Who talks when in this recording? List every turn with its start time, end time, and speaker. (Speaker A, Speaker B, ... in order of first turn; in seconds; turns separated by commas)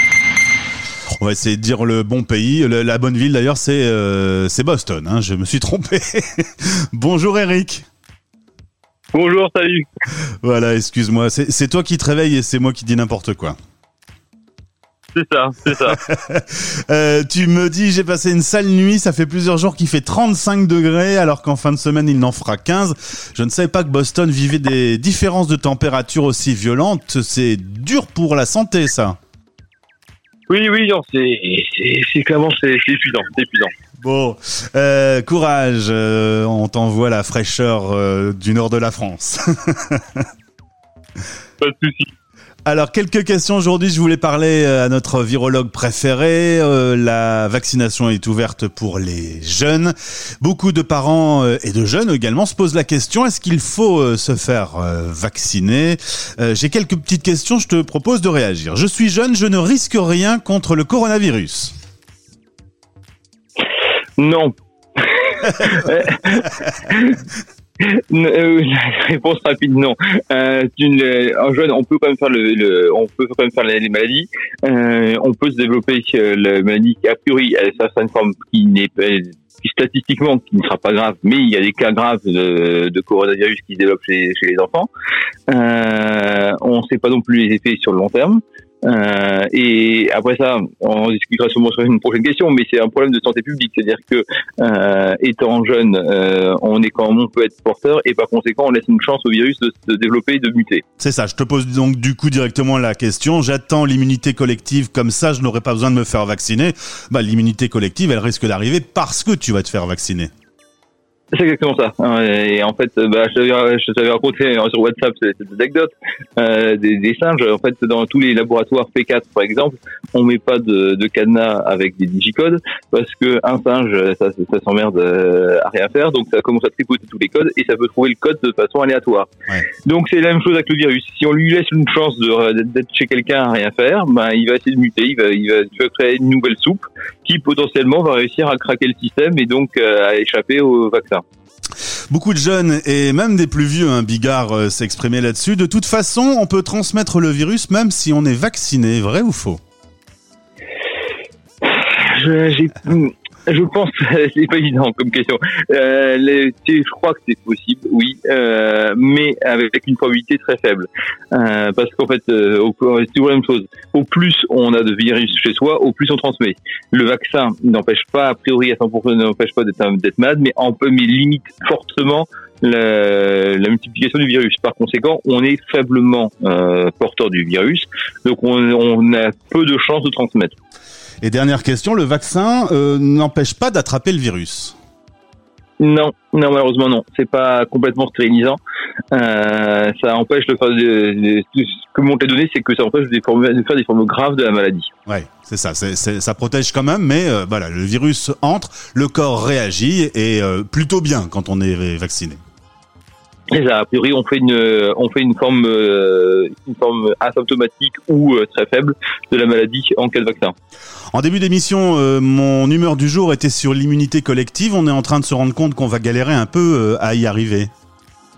Speaker A: 1.2-7.8, Speaker B: 9.1-9.8, Speaker A: 10.4-13.6, Speaker B: 15.1-16.0, Speaker A: 15.9-29.2, Speaker B: 30.5-33.7, Speaker A: 34.0-40.2, Speaker B: 41.6-42.1, Speaker A: 42.6-61.7, Speaker B: 64.2-67.2, Speaker B: 67.8-84.9, Speaker B: 85.5-100.8, Speaker A: 101.0-110.3, Speaker B: 111.3-129.3, Speaker B: 129.8-141.2, Speaker A: 142.1-149.6, Speaker B: 151.6-180.6, Speaker A: 181.2-184.7, Speaker B: 185.8-188.6, Speaker B: 189.1-194.9, Speaker A: 195.1-202.4, Speaker B: 203.5-210.5, Speaker A: 211.1-217.7